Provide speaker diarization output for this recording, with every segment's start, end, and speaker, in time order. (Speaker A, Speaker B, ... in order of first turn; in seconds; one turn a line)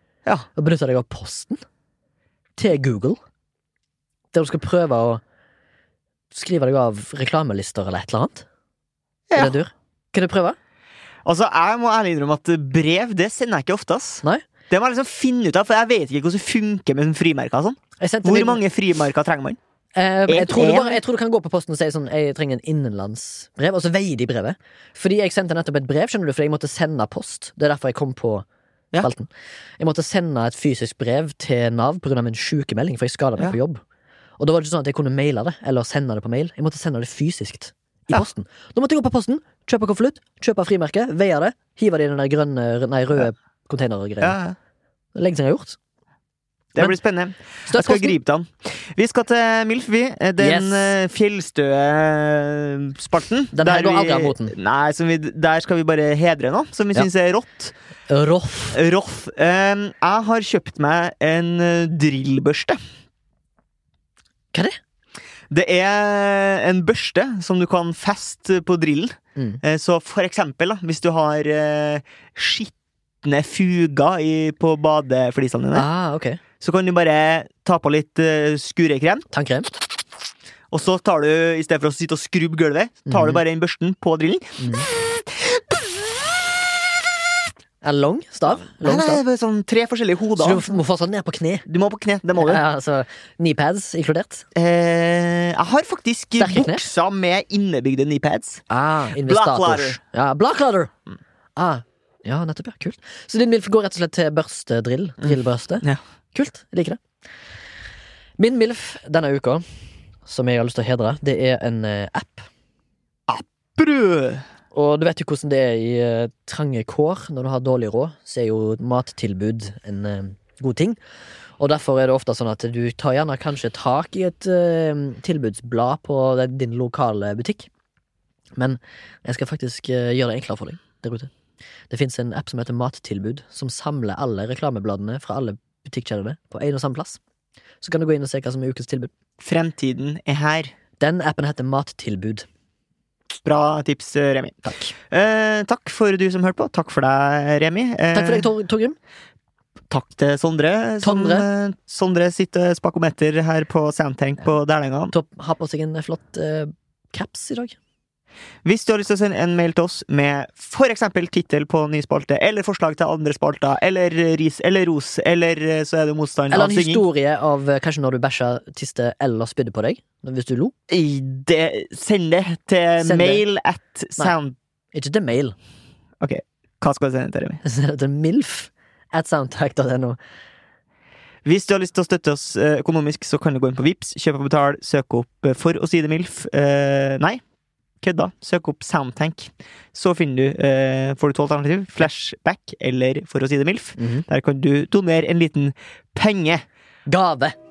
Speaker A: 0.5-1.6
Speaker A: 2.6-3.2
Speaker A: 4.3-5.2
Speaker A: 6.3-8.4
Speaker B: 9.3-9.6
Speaker A: 9.3-10.6
Speaker B: 11.2-19.6
Speaker A: 18.0-18.6
Speaker A: 19.9-28.4
Speaker B: 20.3-21.0
Speaker A: 29.0-33.8
Speaker A: 34.4-44.4
Speaker B: 44.2-44.5
Speaker A: 45.1-45.8
Speaker B: 46.7-57.7
Speaker A: 47.7-48.2
Speaker A: 50.4-50.9
Speaker A: 53.5-54.5
Speaker A: 58.1-58.8
Speaker B: 58.7-62.8
Speaker B: 65.5-75.8
Speaker A: 69.3-69.6
Speaker A: 75.7-76.4
Speaker B: 76.6-79.2
Speaker A: 79.3-79.7
Speaker B: 80.7-86.2
Speaker A: 83.1-83.4
Speaker A: 84.6-84.9
Speaker A: 87.8-89.2
Speaker B: 88.8-90.7
Speaker A: 90.4-91.6
Speaker B: 91.7-92.6
Speaker A: 92.4-94.5
Speaker B: 94.5-98.6
Speaker A: 96.4-96.8
Speaker A: 98.7-100.9
Speaker B: 99.2-100.0
Speaker A: 101.5-107.0
Speaker B: 105.2-106.0
Speaker A: 108.4-109.6
Speaker A: 110.2-112.5
Speaker B: 113.3-114.4
Speaker A: 114.7-121.0
Speaker A: 121.6-127.7
Speaker A: 128.6-131.3
Speaker A: 131.9-137.2
Speaker A: 137.8-139.1
Speaker B: 139.4-140.7
Speaker A: 141.0-142.4
Speaker B: 143.4-148.5
Speaker A: 144.6-144.9
Speaker A: 148.1-149.0
Speaker B: 149.9-155.1
Speaker A: 151.0-151.5
Speaker A: 155.1-157.8
Speaker B: 158.6-167.0
Speaker A: 166.5-170.7
Speaker B: 170.9-174.6
Speaker A: 173.0-173.4
Speaker A: 174.9-175.6
Speaker B: 176.2-177.6
Speaker A: 177.6-180.2
Speaker B: 181.4-187.4
Speaker B: 188.0-196.6
Speaker A: 194.0-194.2
Speaker A: 197.1-197.6